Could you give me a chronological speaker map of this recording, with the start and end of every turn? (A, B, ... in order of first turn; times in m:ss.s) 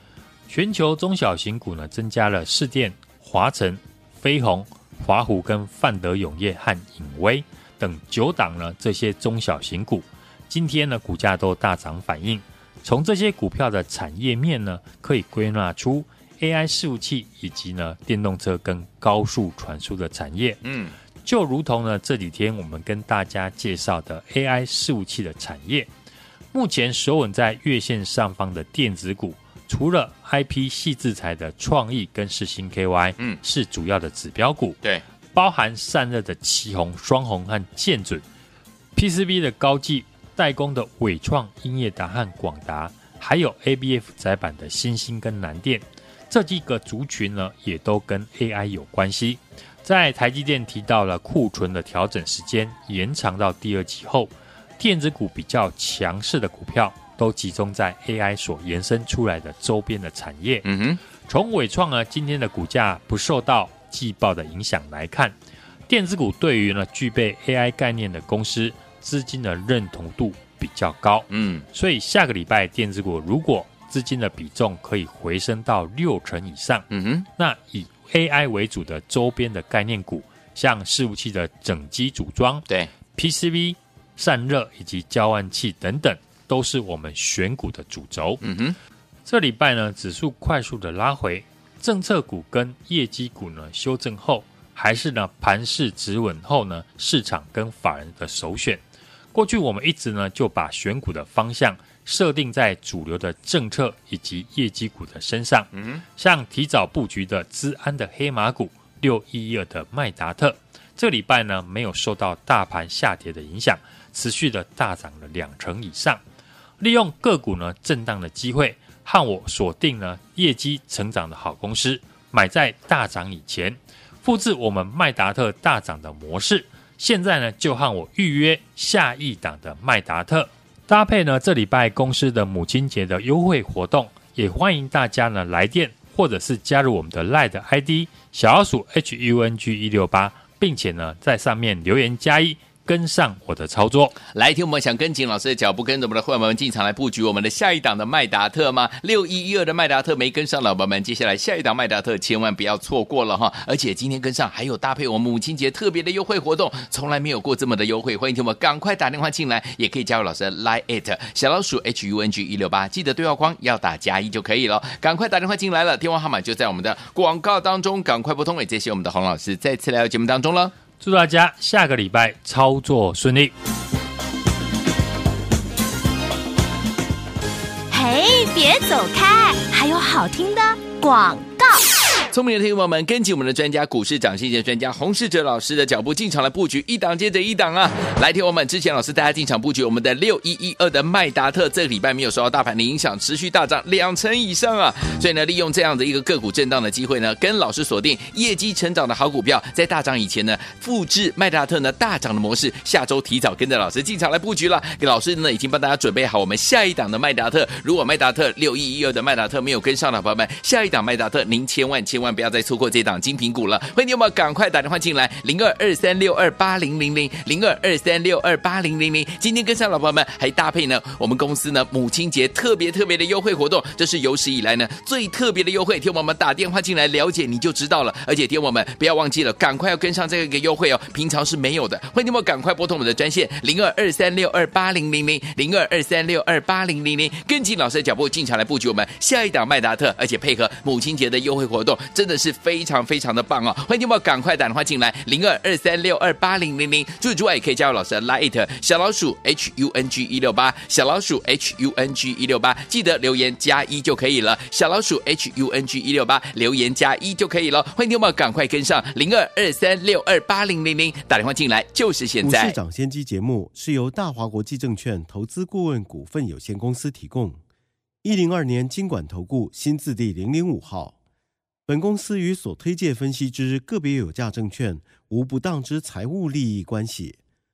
0:00.5-0:20.6 A
0:20.6-0:20.9 B
0:21.2-0:25.9 A
0:26.5-0:34.8 A
0:35.3-0:38.2 A
0:39.0-1:00.7 A
1:00.6-1:01.0 B
1:01.2-1:05.3 A
1:05.9-1:28.4 A
1:11.3-1:11.6 B
1:16.9-1:17.3 B
1:28.4-1:28.8 B
1:29.2-1:38.8 A
1:39.3-1:56.2 A
1:45.8-1:46.0 B
1:56.8-2:24.2 A
2:24.3-2:50.7 B
2:51.0-2:53.5 A
2:57.9-3:01.8 C
3:02.3-4:22.8 B
4:22.4-4:27.6 D
4:28.2-4:31.2 D
4:31.9-4:37.4 D